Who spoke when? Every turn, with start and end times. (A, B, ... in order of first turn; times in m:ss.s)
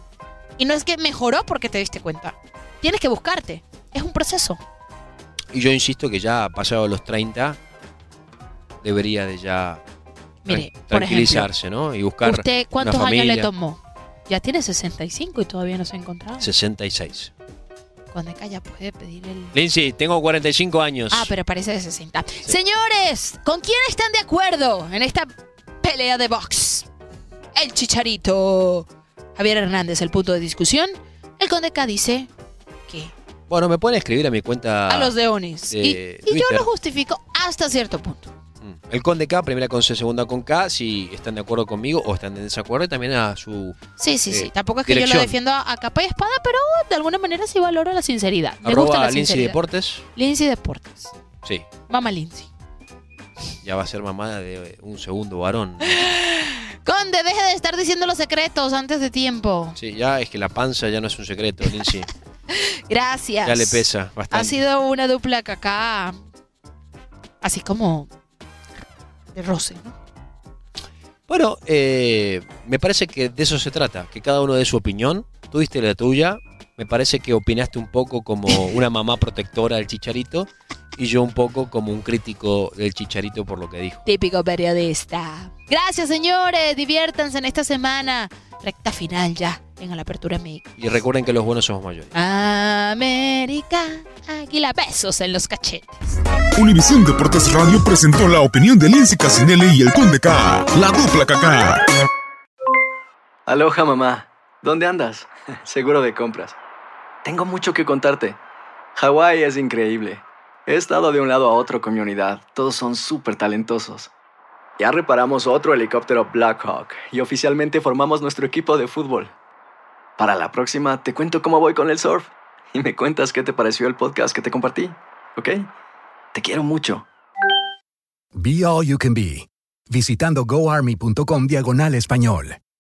0:00.6-0:04.6 A
0:05.5-0:07.6 B
0:08.8-0:09.8 B
0:10.4-0:11.5 A
0:10.4-0:13.5 B
0:12.2-0:16.5 A
0:16.4-0:17.3 B
0:18.1-0:19.5 A
0:19.5-0:21.3 B
0:21.1-0:25.3 A
0:25.8-0:26.8 A
0:27.5-0:32.3 A
0:32.9-0:33.1 A
0:33.5-0:35.2 B
0:34.9-0:38.3 A
0:35.7-0:36.7 B
0:38.6-0:45.3 B
0:44.0-0:49.6 A
0:48.6-0:50.0 B
0:50.2-0:51.1 A
0:51.9-0:52.5 A
0:53.6-0:56.1 B
0:55.8-0:59.8 A
0:59.8-1:02.1 B
1:02.5-1:06.2 A
1:03.4-1:04.6 B
1:07.4-1:08.1 A
1:09.3-1:09.9 A
1:11.3-1:24.0 B
1:24.0-1:30.7 A
1:30.8-1:32.1 B
1:32.1-1:36.0 A
1:36.6-1:41.8 C
1:43.5-1:46.6 D
1:47.2-1:48.4 D
1:49.0-1:54.1 D
1:54.8-1:59.3 D
2:00.2-2:05.7 D
2:06.3-2:07.0 D
2:08.4-2:12.6 E